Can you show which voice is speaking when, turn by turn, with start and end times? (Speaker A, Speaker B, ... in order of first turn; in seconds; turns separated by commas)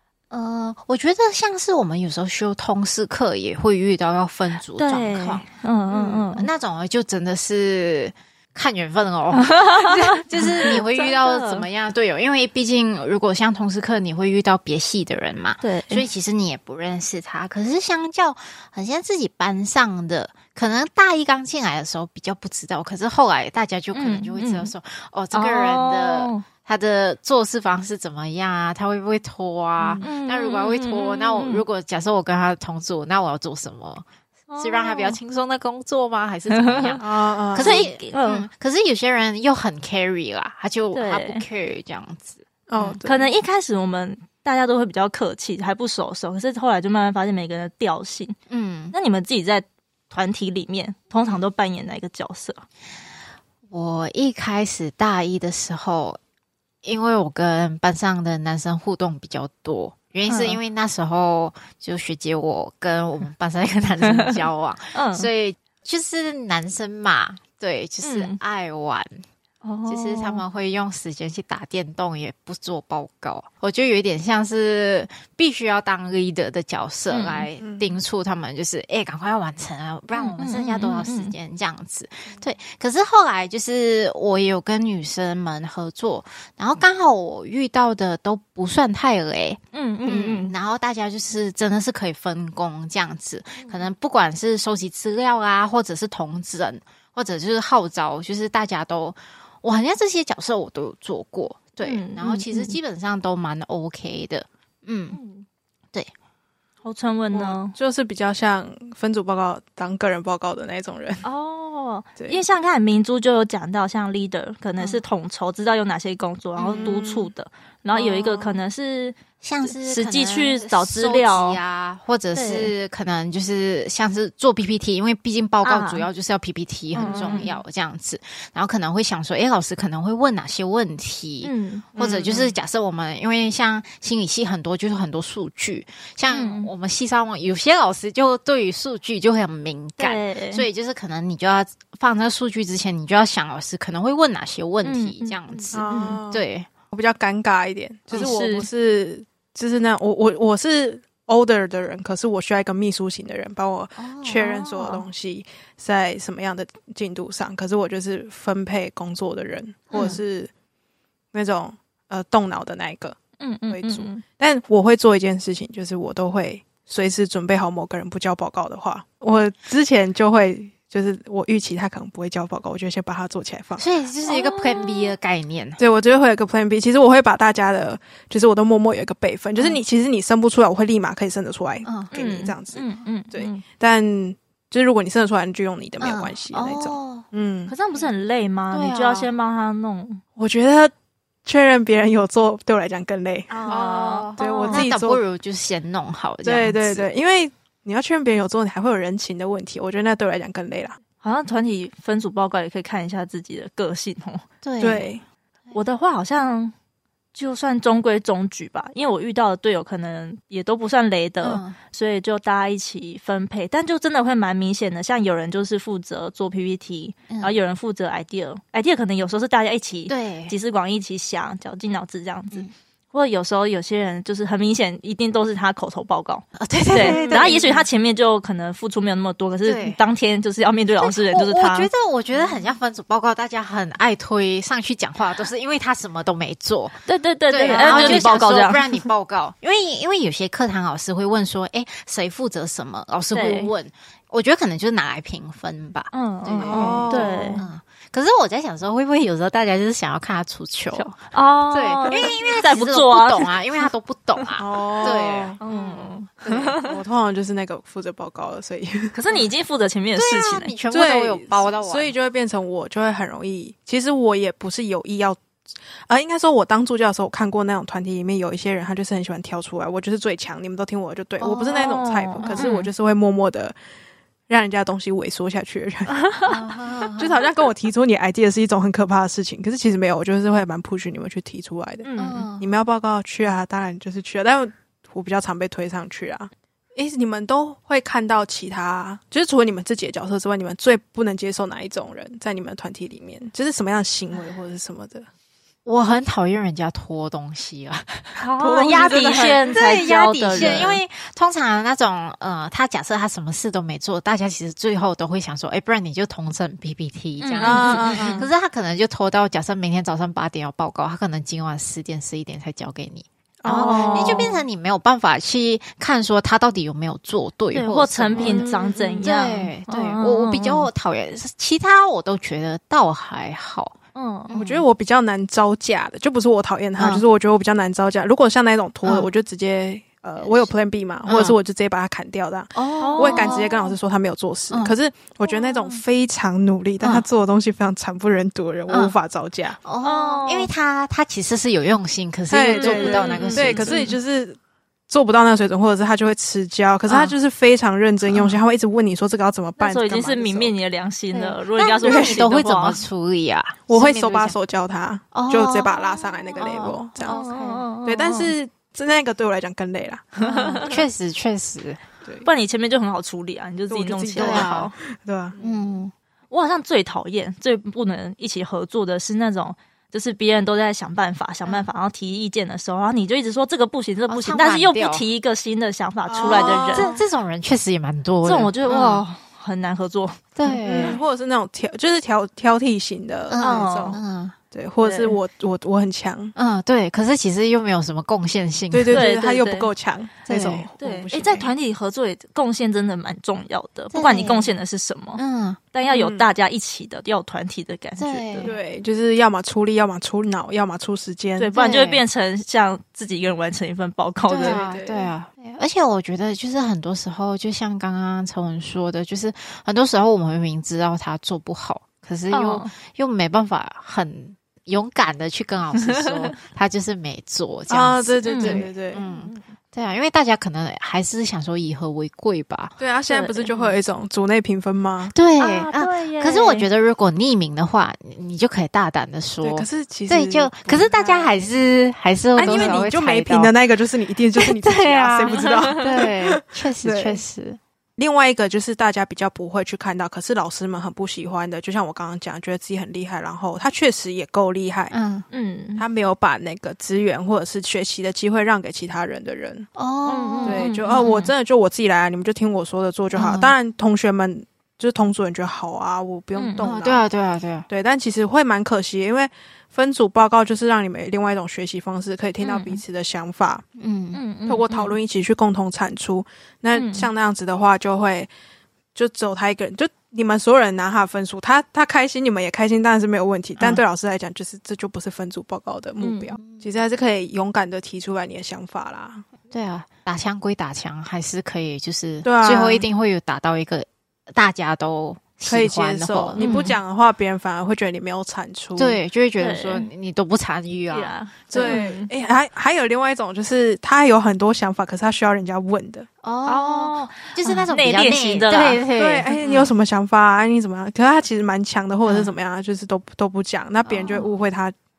Speaker A: 0.3-5.5, Speaker B: 4.8-6.5, Speaker C: 5.9-6.3, Speaker A: 6.3-34.1, Speaker B: 9.3-11.7, Speaker B: 15.6-16.0, Speaker B: 23.9-24.7, Speaker B: 25.3-26.5, Speaker C: 29.8-30.0, Speaker B: 30.0-31.6, Speaker B: 34.5-35.2, Speaker A: 34.6-43.0, Speaker B: 36.5-38.5, Speaker C: 37.0-37.9, Speaker B: 40.9-41.4, Speaker C: 42.7-43.3, Speaker B: 43.0-48.4, Speaker A: 48.5-49.0, Speaker B: 48.9-52.6, Speaker A: 53.7-56.2, Speaker A: 56.8-69.2, Speaker B: 60.3-60.6, Speaker B: 64.0-64.4, Speaker B: 64.9-65.3, Speaker B: 68.0-68.4, Speaker B: 69.6-70.4, Speaker A: 69.9-105.2, Speaker B: 77.1-77.5, Speaker C: 77.6-77.9, Speaker B: 80.1-81.3, Speaker B: 89.7-90.5, Speaker B: 93.6-93.9, Speaker B: 101.8-102.8, Speaker B: 105.1-105.5, Speaker B: 106.8-107.8, Speaker C: 107.3-111.2, Speaker B: 111.2-121.6, Speaker C: 112.2-112.4, Speaker C: 116.6-117.3, Speaker A: 117.9-118.5, Speaker A: 119.4-146.7, Speaker B: 122.3-122.7, Speaker B: 125.6-126.1, Speaker B: 126.9-127.6, Speaker C: 127.0-127.5, Speaker B: 131.4-131.9, Speaker C: 131.9-132.6, Speaker B: 136.3-136.7, Speaker B: 140.0-140.7, Speaker B: 144.8-146.2, Speaker C: 145.7-160.5, Speaker B: 148.1-148.7, Speaker A: 154.0-154.5, Speaker B: 154.4-155.1, Speaker A: 159.9-160.2, Speaker C: 161.3-163.2, Speaker B: 163.4-164.2, Speaker C: 163.7-173.8, Speaker A: 173.8-175.8, Speaker B: 174.2-175.1, Speaker C: 175.8-187.7, Speaker A: 181.9-182.1, Speaker B: 182.1-183.6, Speaker A: 186.0-187.2, Speaker B: 187.7-190.2, Speaker A: 188.7-189.3, Speaker C: 190.4-190.9, Speaker C: 191.4-193.7, Speaker B: 193.5-194.9, Speaker A: 193.7-197.1, Speaker C: 194.4-195.2, Speaker C: 196.4-201.0, Speaker B: 201.2-204.4, Speaker A: 204.6-205.1, Speaker C: 204.8-205.2, Speaker B: 205.7-206.7, Speaker B: 207.3-232.5, Speaker A: 211.4-211.8, Speaker A: 217.3-217.6, Speaker A: 220.1-220.6, Speaker A: 226.6-227.9, Speaker C: 227.1-227.5, Speaker A: 229.6-230.0, Speaker A: 231.0-255.9, Speaker B: 237.1-238.9, Speaker C: 237.7-238.3, Speaker B: 243.3-243.7, Speaker B: 246.1-247.7, Speaker C: 246.6-247.7, Speaker B: 250.9-253.5, Speaker C: 254.6-259.5, Speaker B: 255.6-257.0, Speaker B: 259.1-260.7, Speaker A: 260.2-262.1, Speaker C: 260.9-273.8, Speaker A: 271.4-272.8, Speaker B: 271.7-272.9, Speaker C: 274.5-276.2, Speaker B: 276.1-276.6, Speaker A: 276.5-277.4, Speaker C: 277.1-295.3, Speaker B: 282.0-282.5, Speaker A: 282.2-282.7, Speaker A: 295.9-318.7, Speaker B: 298.4-301.0, Speaker C: 298.7-299.7, Speaker C: 300.5-300.9, Speaker B: 307.4-308.4, Speaker C: 307.6-308.5, Speaker C: 313.6-314.6, Speaker B: 313.7-314.6, Speaker B: 317.7-320.9, Speaker C: 318.4-319.3, Speaker A: 319.2-323.9, Speaker B: 324.1-324.5, Speaker C: 324.5-339.8, Speaker A: 324.5-324.9, Speaker A: 327.0-327.2, Speaker A: 329.0-329.3, Speaker A: 330.4-330.7, Speaker A: 331.3-331.6, Speaker A: 332.8-333.9, Speaker B: 333.0-333.7, Speaker B: 335.5-336.0, Speaker A: 338.9-339.2, Speaker A: 339.8-344.1, Speaker B: 340.0-340.7, Speaker C: 342.5-344.6, Speaker B: 342.7-344.2, Speaker C: 345.1-350.8, Speaker A: 347.1-347.4, Speaker A: 348.3-348.6, Speaker B: 349.8-353.0, Speaker A: 351.3-354.6, Speaker C: 352.0-352.4, Speaker C: 353.9-357.4, Speaker A: 355.3-357.9, Speaker B: 357.3-358.5, Speaker C: 358.0-360.9, Speaker B: 360.4-361.0, Speaker A: 360.4-362.0, Speaker B: 362.4-364.9, Speaker C: 363.9-365.6, Speaker A: 364.4-364.9, Speaker B: 365.6-365.8, Speaker A: 365.6-366.1, Speaker B: 366.5-377.1, Speaker A: 374.3-375.3, Speaker C: 376.3-377.3, Speaker A: 376.4-379.2, Speaker B: 378.4-381.2, Speaker A: 380.6-381.2, Speaker C: 380.8-384.2, Speaker A: 383.5-384.6, Speaker B: 383.6-384.2, Speaker C: 384.7-386.5, Speaker B: 385.0-385.4, Speaker A: 386.6-389.3, Speaker C: 388.9-391.7, Speaker B: 389.1-389.9, Speaker A: 390.5-390.9, Speaker B: 391.0-395.4, Speaker A: 394.1-394.8, Speaker A: 395.4-395.8, Speaker B: 395.9-398.7, Speaker C: 396.1-396.5, Speaker A: 398.2-398.8, Speaker C: 398.6-401.7, Speaker B: 401.6-404.8, Speaker A: 401.7-402.2, Speaker A: 404.5-423.0, Speaker C: 404.6-405.3, Speaker B: 412.5-412.9, Speaker B: 415.9-416.6, Speaker C: 417.9-419.2, Speaker B: 418.4-419.7, Speaker C: 423.0-425.4, Speaker B: 423.3-423.9, Speaker A: 425.3-433.7, Speaker B: 425.6-426.9, Speaker C: 429.6-431.7, Speaker C: 432.6-437.4, Speaker B: 432.6-433.0, Speaker A: 434.6-437.8, Speaker B: 435.5-436.1, Speaker C: 438.2-445.1, Speaker A: 445.1-445.5, Speaker B: 445.5-446.1, Speaker C: 446.0-449.9, Speaker A: 450.0-451.4, Speaker B: 450.3-451.5, Speaker C: 450.6-457.3, Speaker A: 453.4-453.7, Speaker B: 456.6-456.9, Speaker A: 456.8-457.9, Speaker C: 457.9-463.8, Speaker B: 462.6-463.0, Speaker A: 464.0-464.4, Speaker B: 464.3-465.1, Speaker C: 464.7-468.5, Speaker B: 466.9-467.3, Speaker C: 469.1-479.5, Speaker A: 473.8-474.0, Speaker B: 476.2-476.6, Speaker A: 476.6-476.9, Speaker A: 479.7-486.7, Speaker C: 482.4-483.1, Speaker C: 485.7-489.2, Speaker B: 486.6-487.0, Speaker A: 489.0-492.1, Speaker B: 489.6-490.1, Speaker B: 491.1-492.3, Speaker C: 491.7-496.3, Speaker A: 496.4-499.9, Speaker B: 496.7-499.9, Speaker C: 499.1-504.9, Speaker A: 502.2-502.5, Speaker A: 504.1-504.5